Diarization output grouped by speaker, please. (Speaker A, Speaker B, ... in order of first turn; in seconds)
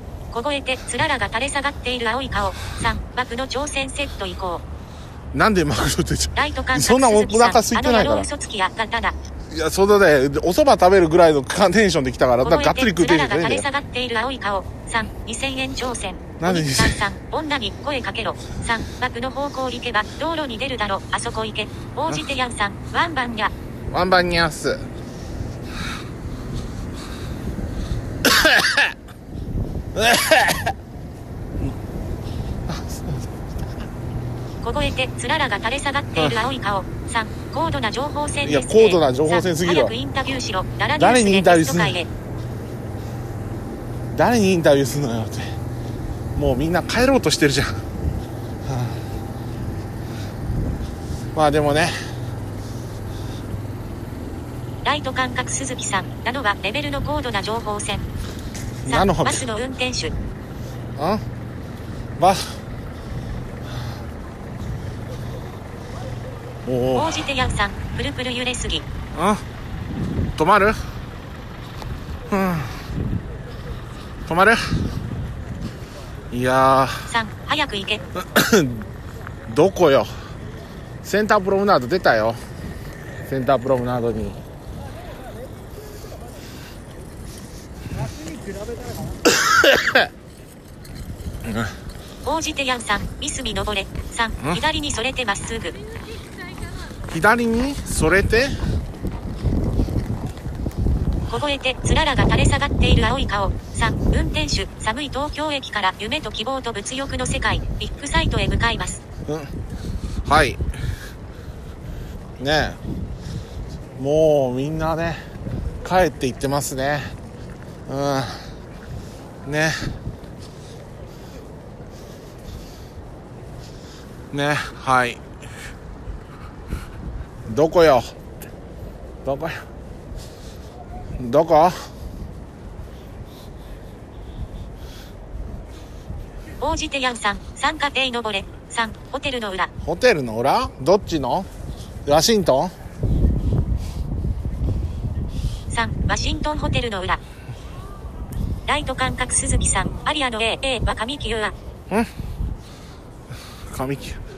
Speaker A: 0.3-4.6, 6.3-9.2, 12.4-23.5, 34.6-42.1, 54.8-58.1, 58.9-60.1, 67.0-68.9, 77.1-78.0, 92.2-95.8, 101.3-109.0, 136.6-139.7, 145.7-147.2, 148.7-151.5
Speaker B: 5.3-8.3, 9.5-13.7, 16.4-17.1, 23.9-24.9, 28.2-28.9, 29.9-30.7, 32.7-33.2, 36.1-36.4, 38.4-40.0, 41.0-42.0, 44.1-45.5, 46.4-47.8, 48.7-49.0, 51.3-52.0, 58.9-59.5, 61.0-61.2, 62.2-62.6, 66.7-67.3, 69.1-69.4, 70.4-70.8, 72.3-72.8, 74.3-74.8, 76.3-77.1, 78.2-78.8, 79.5-80.1, 81.0-82.4, 83.2-84.4, 89.3-90.1, 91.4-91.7, 97.1-98.6, 109.3-109.5, 110.2-110.6, 112.4-112.8, 114.0-115.2, 115.8-117.1, 117.9-118.5, 119.5-119.9, 124.3-125.2, 127.5-128.2, 129.2-129.7, 131.2-131.9, 139.8-141.5, 142.1-142.7, 153.7-154.2